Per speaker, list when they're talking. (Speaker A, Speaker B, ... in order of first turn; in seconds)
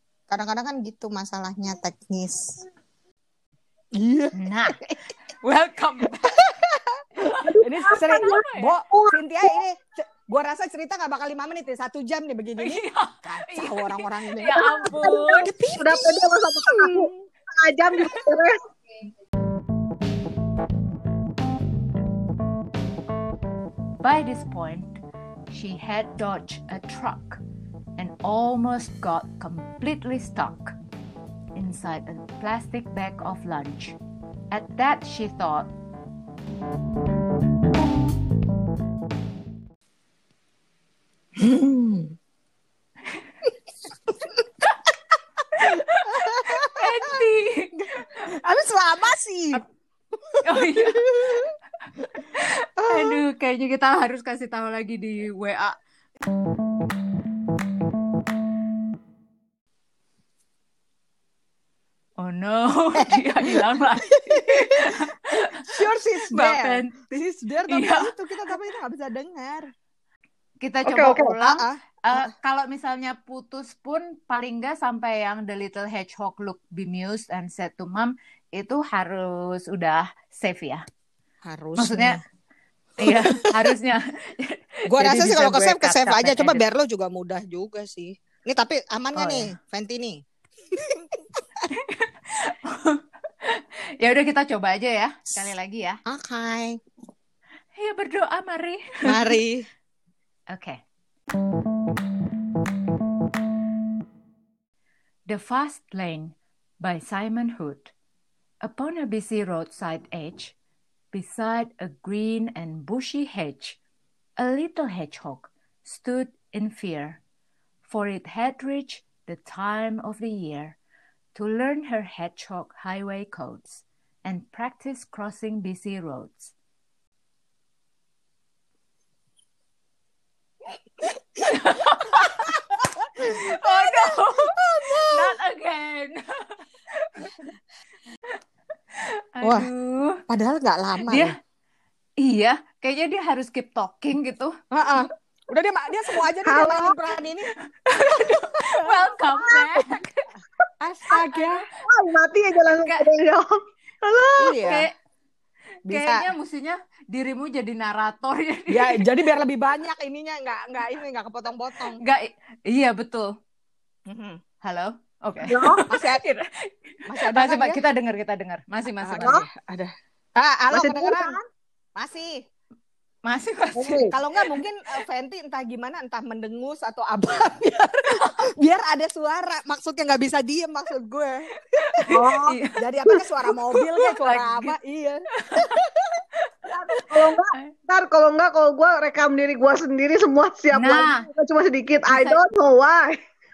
Speaker A: 0.3-2.6, 3.9-4.3, 7.6-17.1, 41.4-42.1, 46.3-47.1, 48.3-49.6, 50.6-51.5, 52.8-53.2, 63.0-63.6, 64.2-69.7, 71.4-72.3, 81.4-82.2, 83.0-83.5, 84.9-90.2, 90.7-91.2, 96.1-96.8, 99.0-99.7, 133.2-135.3, 139.4-139.7, 140.3-141.3, 144.7-147.5, 148.2-148.9, 150.8-151.6, 154.4-154.9, 155.9-156.3, 158.7-162.0, 164.1-164.4, 165.9-166.2, 167.1-167.8, 169.0-171.3, 171.9-172.3, 174.1-181.4, 182.8-185.2
Speaker B: 4.3-6.5, 7.1-8.7, 12.6-15.5, 24.0-25.0, 25.5-27.4, 28.0-30.7, 31.5-34.0, 34.5-35.7, 45.5-48.1, 50.4-51.4, 52.2-55.8, 62.2-65.7, 66.2-67.0, 67.7-68.1, 70.6-80.8, 81.8-82.2, 83.0-86.6, 89.1-89.5, 91.7-96.0, 97.7-99.4, 100.5-100.8, 105.3-107.9, 108.6-110.5, 111.1-113.8, 114.4-117.2, 117.8-120.8, 121.3-126.5, 131.4-132.6, 133.2-137.3, 139.0-140.2, 141.0-141.3, 142.2-144.5, 147.7-150.3, 154.5-154.9, 155.9-159.0, 161.9-163.3, 164.6-169.4, 173.2-174.6, 178.1-178.4, 181.7-182.8, 183.7-184.7, 185.4-187.7, 190.7-191.2, 192.1-192.4
Speaker C: 7.6-8.3, 15.8-17.0, 17.6-18.5, 70.9-71.3, 146.4-146.9, 151.9-153.4, 154.0-154.5, 165.5-165.8, 170.8-171.3, 173.8-174.1, 186.9-193.1